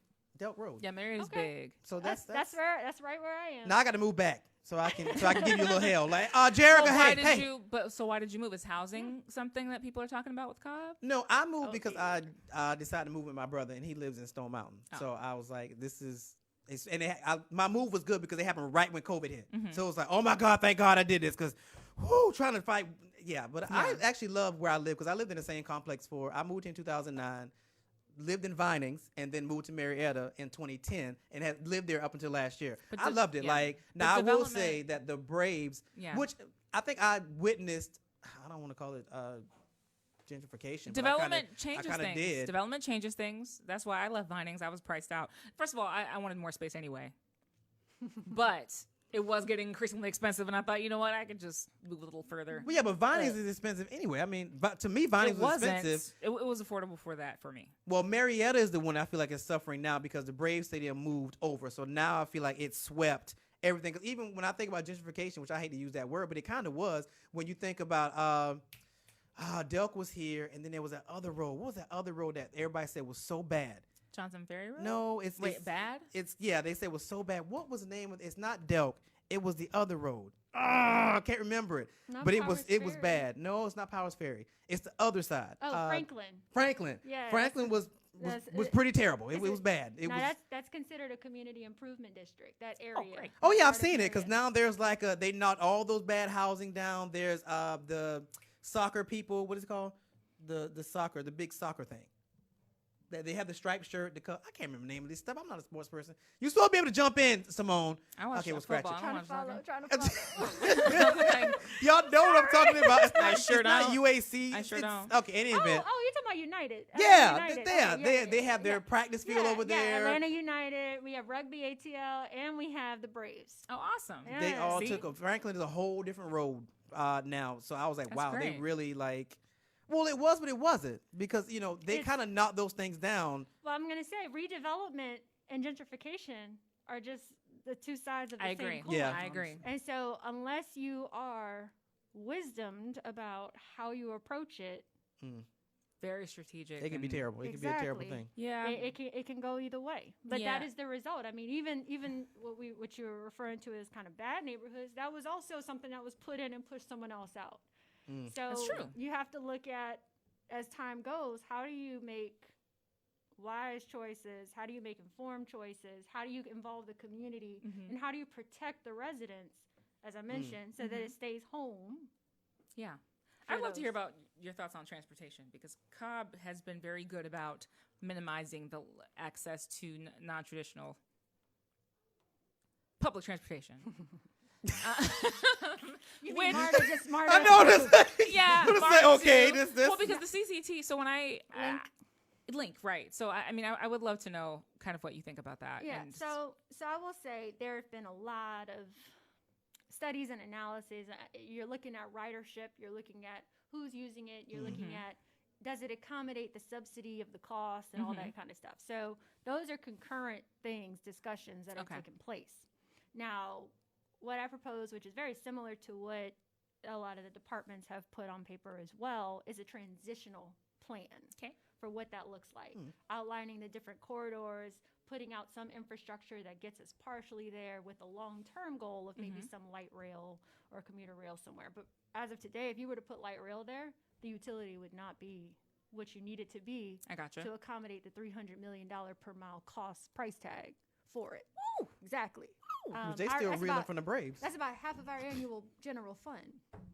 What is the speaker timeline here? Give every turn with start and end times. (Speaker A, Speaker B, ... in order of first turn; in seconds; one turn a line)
Speaker A: 0.4-0.8
Speaker B: 0.8-1.8
Speaker C: 1.2-3.8
Speaker A: 1.8-2.6
Speaker A: 3.6-7.5
Speaker C: 4.8-6.2
Speaker B: 6.6-11.0
Speaker A: 11.0-27.5
Speaker C: 11.6-12.2
Speaker B: 19.5-19.8
Speaker B: 23.7-24.0
Speaker A: 28.1-39.4
Speaker B: 32.9-34.8
Speaker B: 36.0-36.3
Speaker A: 40.3-42.5
Speaker B: 40.9-47.1
Speaker B: 48.2-53.4
Speaker A: 52.7-56.1
Speaker B: 55.2-57.7
Speaker A: 57.9-68.6
Speaker A: 69.4-73.8
Speaker B: 74.1-76.1
Speaker A: 74.8-90.3
Speaker C: 82.1-83.3
Speaker C: 85.6-86.5
Speaker C: 87.0-88.8
Speaker C: 89.3-94.3
Speaker B: 92.9-93.3
Speaker A: 93.4-102.1
Speaker A: 103.1-109.0
Speaker B: 108.2-109.7
Speaker C: 108.9-113.6
Speaker A: 109.9-115.9
Speaker B: 110.6-111.7
Speaker B: 113.2-115.1
Speaker C: 115.5-123.7
Speaker A: 116.9-120.2
Speaker B: 123.7-125.1
Speaker C: 124.2-125.1
Speaker A: 124.3-133.5
Speaker B: 128.1-128.7
Speaker C: 131.9-132.1
Speaker C: 133.6-144.9
Speaker B: 138.4-139.6
Speaker A: 138.9-139.6
Speaker A: 145.2-145.5
Speaker B: 146.0-147.3
Speaker A: 146.8-148.3
Speaker C: 147.4-157.7
Speaker B: 148.3-148.9
Speaker B: 150.3-150.7
Speaker A: 158.1-158.3
Speaker C: 158.2-162.5
Speaker B: 158.5-158.9
Speaker C: 163.4-172.1
Speaker B: 167.6-167.9
Speaker A: 170.3-170.6
Speaker B: 170.8-171.2
Speaker B: 172.8-181.0
Speaker C: 173.5-173.9
Speaker B: 183.0-184.0
Speaker B: 184.8-186.9
Speaker C: 186.2-188.0
Speaker A: 186.5-190.1
Speaker B: 187.9-191.9
Speaker C: 191.5-191.9
Speaker B: 192.5-196.3
Speaker C: 195.8-199.1
Speaker C: 199.9-241.5
Speaker A: 204.5-204.8
Speaker B: 204.7-205.0
Speaker B: 208.0-208.3
Speaker B: 211.8-212.0
Speaker B: 229.2-229.5
Speaker B: 237.1-237.5
Speaker B: 241.6-241.9
Speaker C: 242.0-246.6
Speaker A: 243.0-244.4